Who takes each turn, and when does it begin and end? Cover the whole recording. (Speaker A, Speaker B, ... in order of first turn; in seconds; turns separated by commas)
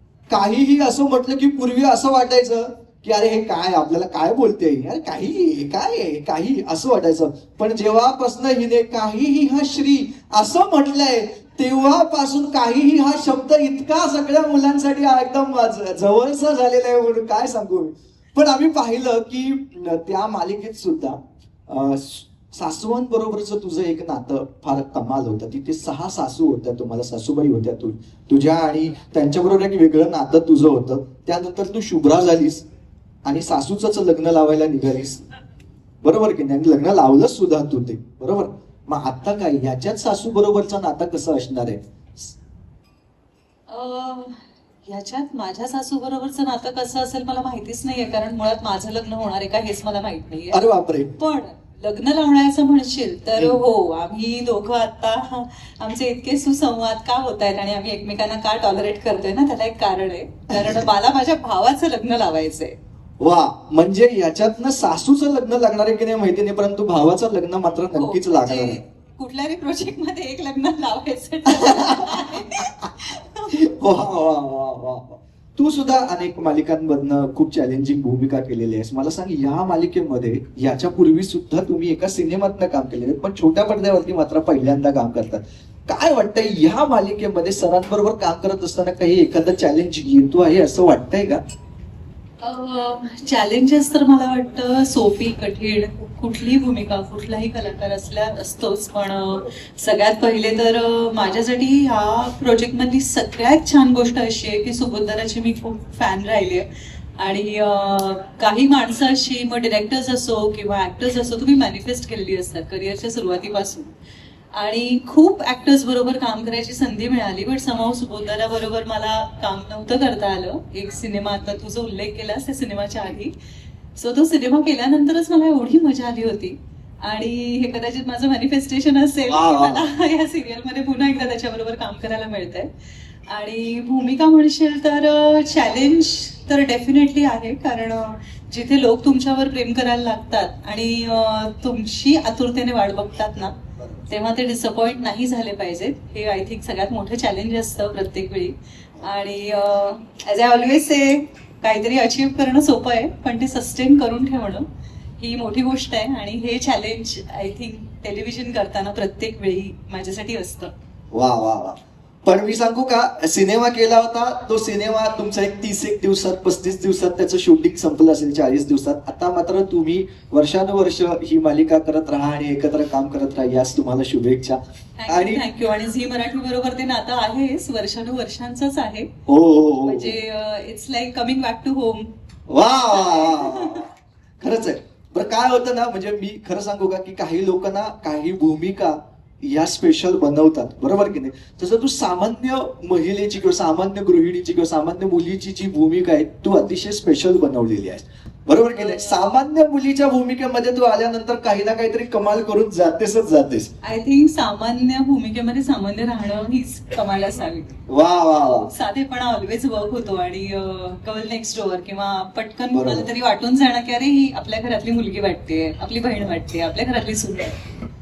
Speaker A: 0.3-32.6, Speaker A: 33.2-35.2, Speaker A: 36.0-42.3, Speaker B: 43.7-50.6, Speaker A: 50.5-51.1, Speaker B: 51.2-62.8, Speaker A: 63.2-68.8, Speaker B: 68.0-73.5, Speaker A: 71.5-72.4, Speaker A: 73.5-91.4, Speaker B: 92.4-113.9, Speaker B: 114.5-123.3, Speaker B: 124.0-132.7, Speaker A: 129.3-129.9, Speaker B: 133.3-143.5, Speaker A: 143.8-144.0, Speaker B: 144.1-154.7, Speaker B: 155.2-160.7, Speaker A: 161.1-175.4, Speaker B: 175.0-179.1, Speaker A: 179.3-180.1, Speaker B: 179.8-182.1, Speaker A: 182.5-203.7, Speaker B: 182.9-183.8, Speaker B: 198.8-199.2, Speaker B: 203.8-207.8, Speaker A: 207.9-208.7, Speaker B: 208.7-217.6, Speaker A: 212.7-213.1